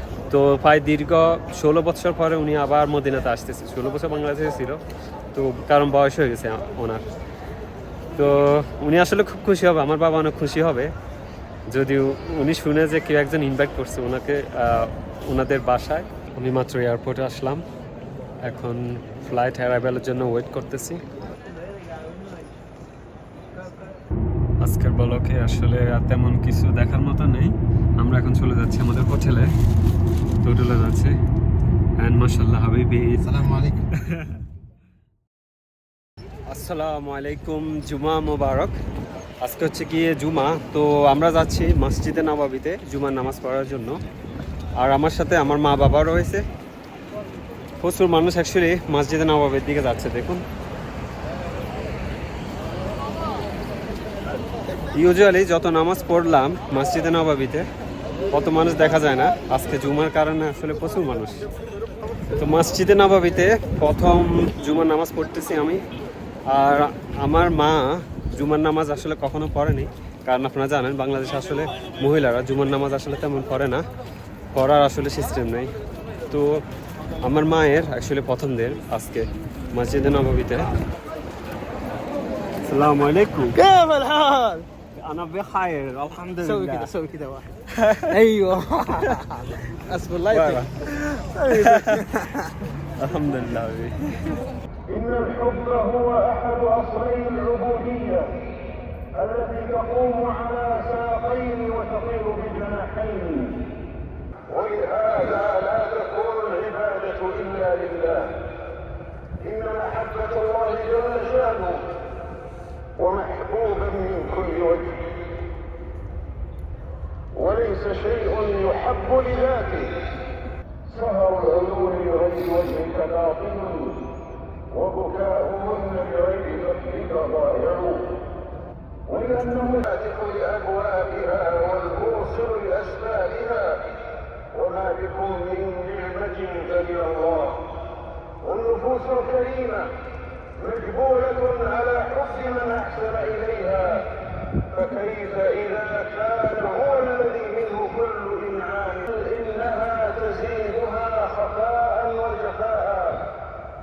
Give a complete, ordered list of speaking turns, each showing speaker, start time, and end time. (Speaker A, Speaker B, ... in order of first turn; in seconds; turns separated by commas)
Speaker A: 0.3-4.8, Speaker A: 5.3-7.0, Speaker A: 8.2-10.9, Speaker A: 11.7-17.6, Speaker A: 18.4-21.0, Speaker A: 24.6-29.5, Speaker A: 30.4-31.2, Speaker A: 32.0-33.4, Speaker B: 33.2-33.9, Speaker A: 34.0-34.4, Speaker A: 36.5-38.8, Speaker A: 39.4-44.0, Speaker A: 44.8-46.4, Speaker A: 47.8-50.4, Speaker A: 54.9-57.7, Speaker A: 58.3-61.4, Speaker A: 62.4-65.8, Speaker A: 66.5-73.8, Speaker A: 74.5-75.7, Speaker A: 77.2-80.7, Speaker A: 82.6-83.6, Speaker B: 83.5-84.7, Speaker A: 85.0-86.9, Speaker B: 86.4-87.5, Speaker A: 87.8-88.2, Speaker B: 88.1-92.5, Speaker A: 90.3-92.1, Speaker A: 93.0-94.4, Speaker C: 94.9-98.4, Speaker C: 99.2-103.7, Speaker C: 104.5-108.5, Speaker C: 109.4-111.9, Speaker C: 113.0-115.1, Speaker C: 117.3-120.0, Speaker C: 120.9-124.1, Speaker C: 124.7-128.2, Speaker C: 129.1-133.9, Speaker C: 134.5-137.7, Speaker C: 138.4-139.9, Speaker C: 140.6-144.2, Speaker C: 144.7-153.3